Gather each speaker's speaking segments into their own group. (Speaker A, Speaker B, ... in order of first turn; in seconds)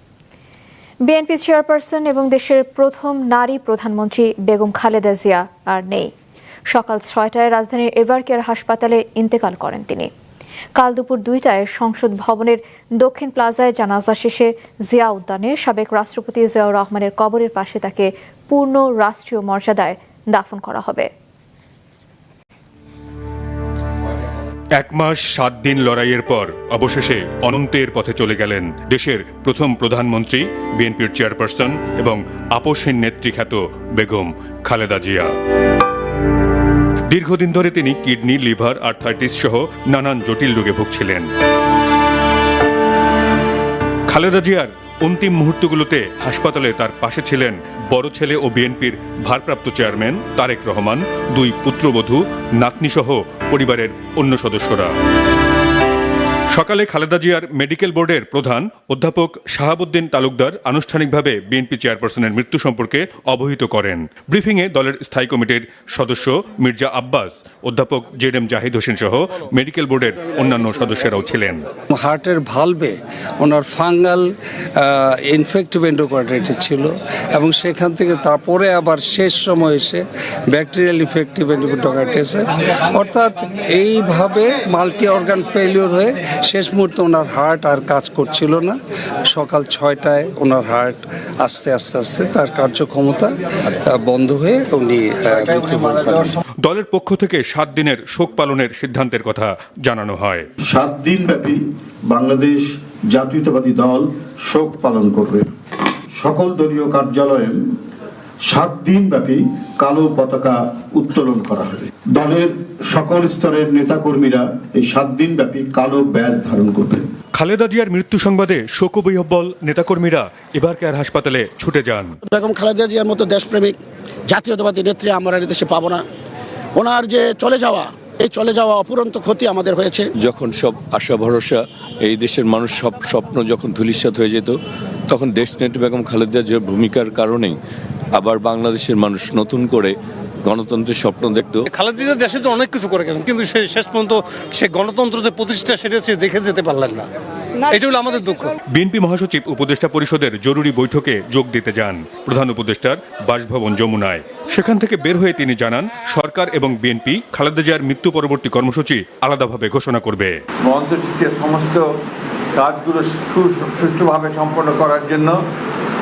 Speaker A: 1.0-6.1, 6.7-10.1, 10.8-21.1
Speaker B: 24.8-35.3, 37.1-41.3, 44.1-54.9, 56.5-71.6, 96.6-100.5, 117.3-122.2, 148.7-160.3
Speaker C: 71.9-88.7, 89.3-93.3, 93.8-96.4
Speaker D: 95.3-96.4, 100.7-105.5, 106.1-107.7, 108.5-117.1
Speaker E: 122.3-123.8, 124.3-126.0, 126.8-130.1
Speaker F: 130.2-134.6, 135.1-137.6, 138.1-141.7
Speaker G: 141.8-147.0, 147.8-148.4
Speaker H: 160.6-161.8, 162.5-165.4